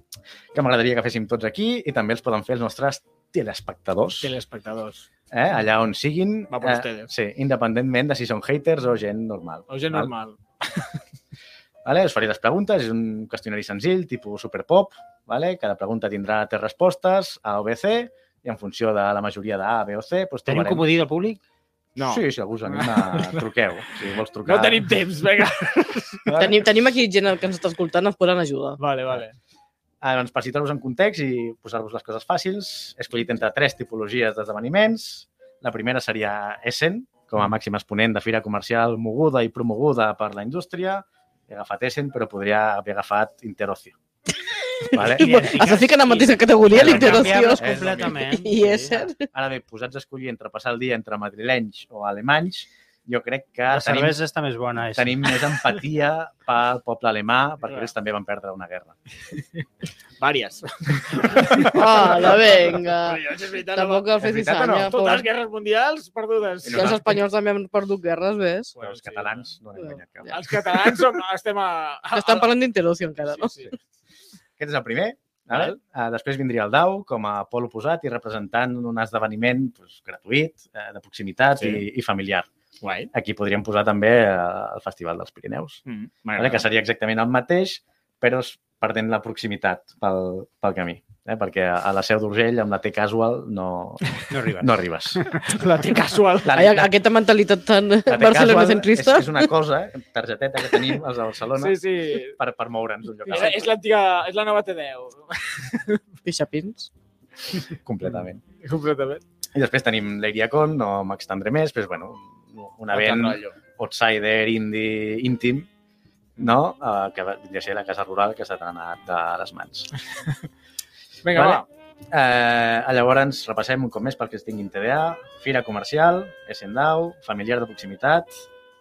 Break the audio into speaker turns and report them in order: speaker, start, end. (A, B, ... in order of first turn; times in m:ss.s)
0:00.5-0:04.3 A
0:04.2-0:05.1 B
0:05.3-0:10.1 A
0:06.5-0:07.1 B
0:09.7-0:10.9 B
0:11.8-0:20.9 A
0:20.5-0:21.4 C
0:22.0-0:23.4 B
0:22.0-0:24.9 A
0:24.4-0:26.3 B
0:26.3-0:26.7 A
0:26.4-0:28.8 D
0:28.8-0:29.4 B
0:30.0-0:44.0 A
0:44.9-0:49.3 D
0:44.9-0:45.5 A
0:45.0-0:49.1 C
0:46.7-0:48.3 A
0:49.3-0:54.2 A
0:53.7-0:55.4 C
0:54.9-0:59.0 A
0:57.6-0:57.9 B
1:00.2-1:07.2 B
1:01.4-1:01.7 A
1:01.6-1:03.2 D
1:03.7-1:05.3 D
1:04.2-1:04.9 A
1:06.6-1:07.2 A
1:06.7-1:08.8 D
1:08.8-1:09.5 B
1:08.8-1:10.7 A
1:09.8-1:10.4 D
1:10.3-1:12.5 B
1:12.1-1:13.6 D
1:13.2-1:13.7 B
1:14.6-1:22.5 A
1:21.6-1:21.8 B
1:22.8-1:23.1 B
1:23.1-1:25.8 A
1:25.9-1:26.6 B
1:26.4-1:35.4 A
1:34.3-1:35.4 C
1:35.4-1:36.7 B
1:36.4-1:36.9 A
1:36.5-1:39.5 D
1:38.1-1:41.8 A
1:41.6-1:42.4 B
1:42.4-1:43.7 A
1:43.3-1:46.0 B
1:46.2-1:46.9 D
1:47.8-1:48.4 A
1:48.6-1:49.2 B
1:49.5-1:55.7 A
1:52.9-1:53.6 B
1:56.4-1:59.9 A
2:01.2-2:01.7 B
2:01.3-2:08.3 A